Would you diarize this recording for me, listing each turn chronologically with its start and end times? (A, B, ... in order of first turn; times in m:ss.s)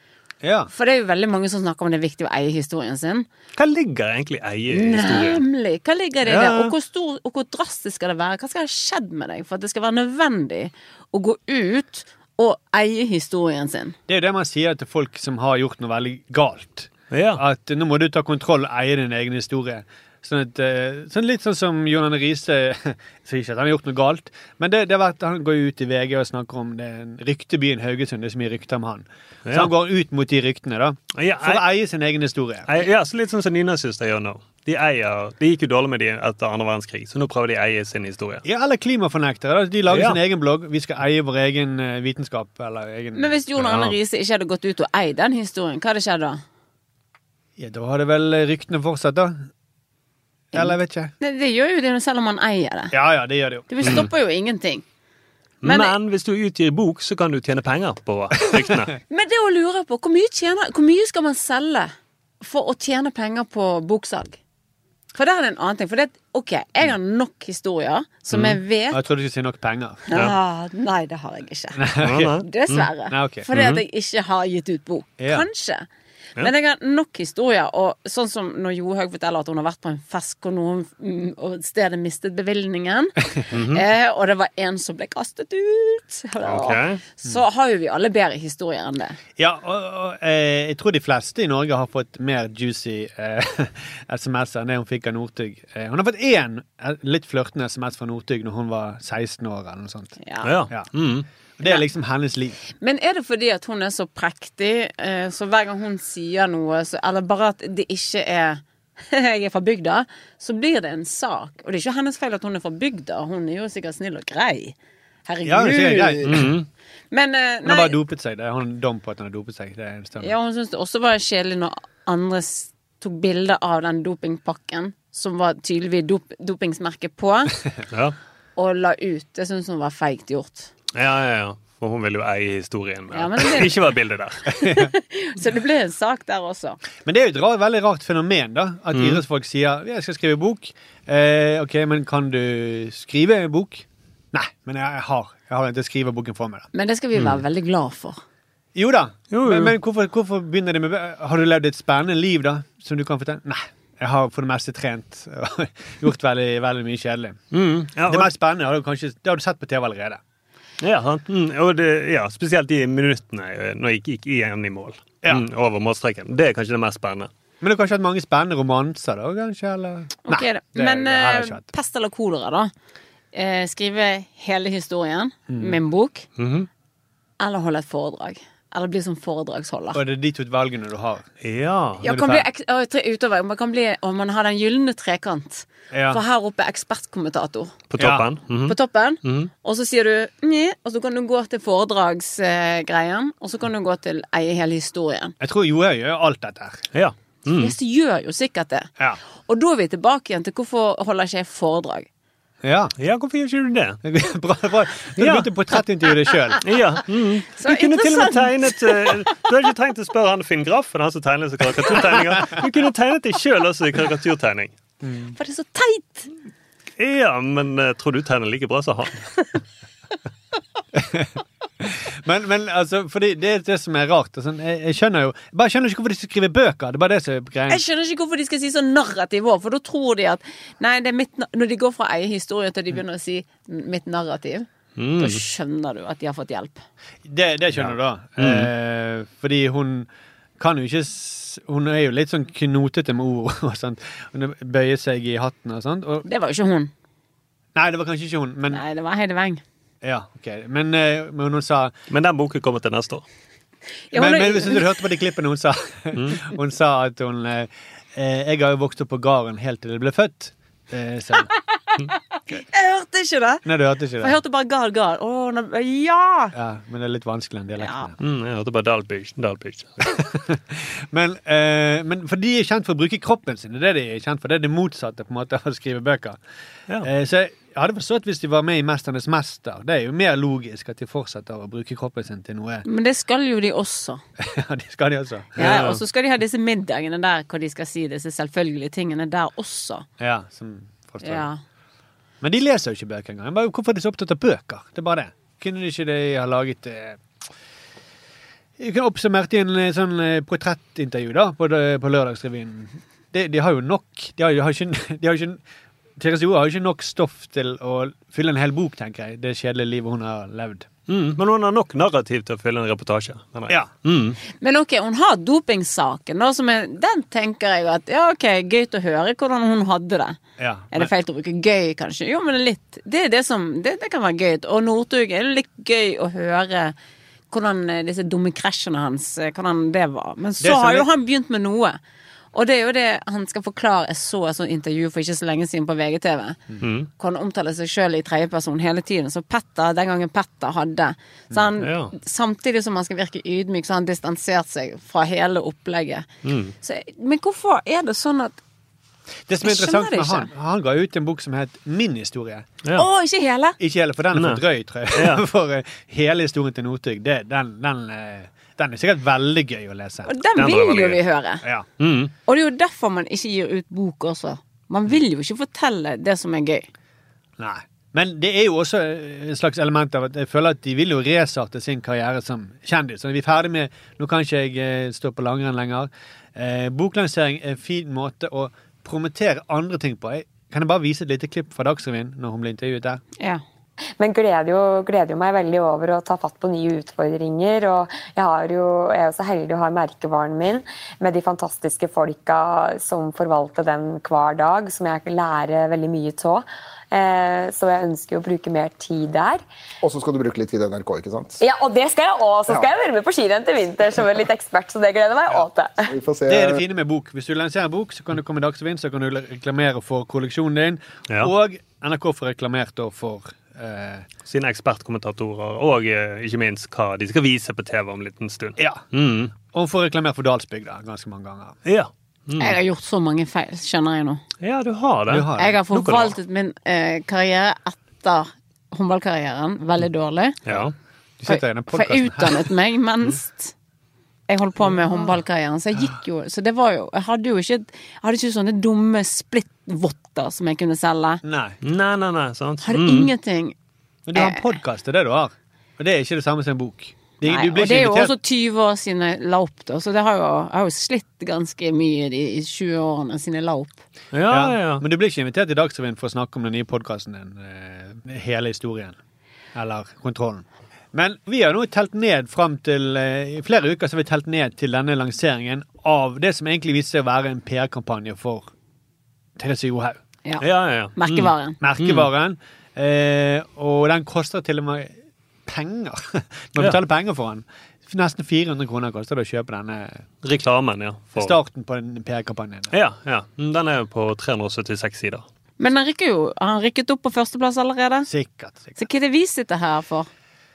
0:00.4-0:00.7 A
0:00.7-0:03.3 B
0:03.6-0:05.4 C
0:04.7-0:14.0 B
0:06.3-0:06.7 C
0:14.1-0:32.7 A
0:17.1-0:17.4 C
0:29.5-0:29.7 C
0:31.2-0:31.6 C
0:32.7-0:38.4 C
0:38.4-0:43.4 A
0:39.9-0:40.2 C
0:43.1-0:46.4 B
0:43.6-0:44.0 C
0:47.6-0:49.5 A
0:50.5-0:51.1 A
0:50.5-0:52.9 B
0:52.9-0:54.1 A
0:53.7-0:54.8 B
0:53.8-0:54.1 C
0:55.6-0:58.9 C
0:55.6-0:56.0 B
0:59.1-1:04.4 B
1:05.2-1:09.0 B
1:08.3-1:08.6 C
1:08.9-1:10.0 A
1:10.1-1:15.9 B
1:11.8-1:12.4 A
1:12.0-1:12.9 C
1:13.1-1:13.5 A
1:13.5-1:13.8 C
1:15.2-1:15.4 A
1:16.4-1:29.2 B
1:23.5-1:23.8 C
1:26.4-1:27.0 C
1:29.4-1:40.2 A
1:40.2-1:40.5 B
1:40.4-1:41.3 C
1:41.6-1:42.6 A
1:42.7-1:56.4 B
1:55.4-1:56.5 A
1:56.3-1:56.7 C
1:57.1-1:58.0 B
1:57.6-2:00.3 A
2:00.2-2:07.5 B
2:08.6-2:10.7 B
2:10.9-2:14.5 C
2:13.1-2:13.7 B
2:14.6-2:16.8 B
2:14.6-2:14.9 A
2:17.0-2:26.7 A
2:18.9-2:19.2 C
2:26.7-2:28.2 B
2:28.8-2:37.4 A
2:29.3-2:29.7 C
2:37.5-2:38.3 C
2:38.1-2:40.2 A
2:40.8-2:47.3 C
2:47.6-2:51.6 A
2:50.3-2:52.7 B
2:53.3-2:56.3 B
2:55.5-2:55.8 A
2:56.4-2:56.7 C
2:57.4-3:00.0 B
2:59.9-3:01.3 A
3:01.4-3:02.0 C
3:02.0-3:02.4 A
3:02.0-3:07.8 B
3:05.9-3:06.2 A
3:07.9-3:09.5 C
3:08.0-3:08.3 A
3:08.7-3:15.4 B
3:15.4-3:16.8 A
3:16.9-3:17.8 C
3:17.5-3:18.9 B
3:19.5-3:22.1 B
3:22.6-3:22.9 A
3:23.0-3:24.0 C
3:24.0-3:26.6 A
3:25.2-3:25.5 C
3:26.6-3:34.7 C
3:27.5-3:29.2 B
3:35.0-3:35.4 A
3:35.4-3:36.3 B
3:37.0-3:39.4 C
3:41.0-3:41.3 A
3:41.8-3:47.8 A
3:47.7-3:56.8 B
3:55.0-3:55.4 C
3:57.2-4:00.1 A
3:57.7-3:58.7 C
4:00.6-4:06.3 A
4:06.2-4:06.9 B
4:07.8-4:08.8 A
4:08.7-4:09.6 B
4:10.0-4:11.9 A
4:12.1-4:13.2 C
4:14.1-4:15.0 B
4:14.1-4:21.5 A
4:16.2-4:16.4 C
4:22.0-4:23.6 B
4:23.6-4:24.4 A
4:24.2-4:26.5 B
4:26.5-4:28.2 A
4:27.8-4:28.1 B
4:28.2-4:30.2 C
4:30.3-4:36.4 A
4:37.0-4:42.8 A
4:42.8-4:44.2 B
4:44.4-4:45.9 A
4:45.6-4:46.0 C
4:45.6-4:50.1 B
4:50.2-4:51.5 A
4:51.2-4:51.6 B
4:52.4-4:57.2 A
4:58.8-5:05.6 A
5:06.2-5:10.9 A
5:11.1-5:14.4 C
5:14.6-5:20.4 B
5:20.6-5:21.1 A
5:20.9-5:27.0 B
5:27.5-5:32.0 B
5:30.6-5:31.1 A
5:32.5-5:36.6 B
5:36.8-5:37.1 C
5:37.2-5:46.3 B
5:41.8-5:42.1 C
5:46.4-5:46.7 C
5:46.8-5:48.6 B
5:49.5-5:52.7 A
5:49.6-5:50.5 B
5:53.0-5:53.8 B
5:53.8-6:00.3 A
5:54.4-5:54.6 C
5:55.1-5:55.4 C
6:00.2-6:01.6 B
6:00.6-6:01.2 C
6:02.0-6:02.3 C
6:02.5-6:06.9 B
6:07.6-6:23.2 A
6:24.2-6:39.6 D
6:40.0-6:41.6 E
6:41.6-6:46.1 D
6:46.1-6:46.8 E
6:46.5-6:54.3 A
6:54.5-6:59.5 C
6:58.8-7:01.8 A
7:01.9-7:02.8 C
7:02.6-7:04.4 B
7:04.6-7:06.4 C
7:05.3-7:05.8 A
7:05.6-7:10.6 B
7:10.7-7:10.9 C
7:11.4-7:12.7 A
7:11.5-7:13.7 B
7:14.5-7:21.4 B
7:21.4-7:21.8 A
7:21.8-7:23.3 C
7:22.8-7:23.8 B
7:24.3-7:28.3 A
7:24.4-7:24.7 B
7:27.4-7:34.0 B
7:34.3-7:35.0 C
7:34.5-7:39.2 A
7:39.7-7:48.7 A
7:49.6-7:50.2 A
7:50.4-7:51.8 B
7:50.6-7:52.3 C
7:51.8-8:00.2 A
8:00.4-8:01.6 C
8:01.4-8:02.9 A
8:02.9-8:05.4 C
8:05.8-8:08.3 B
8:08.3-8:09.0 A
8:09.0-8:10.3 B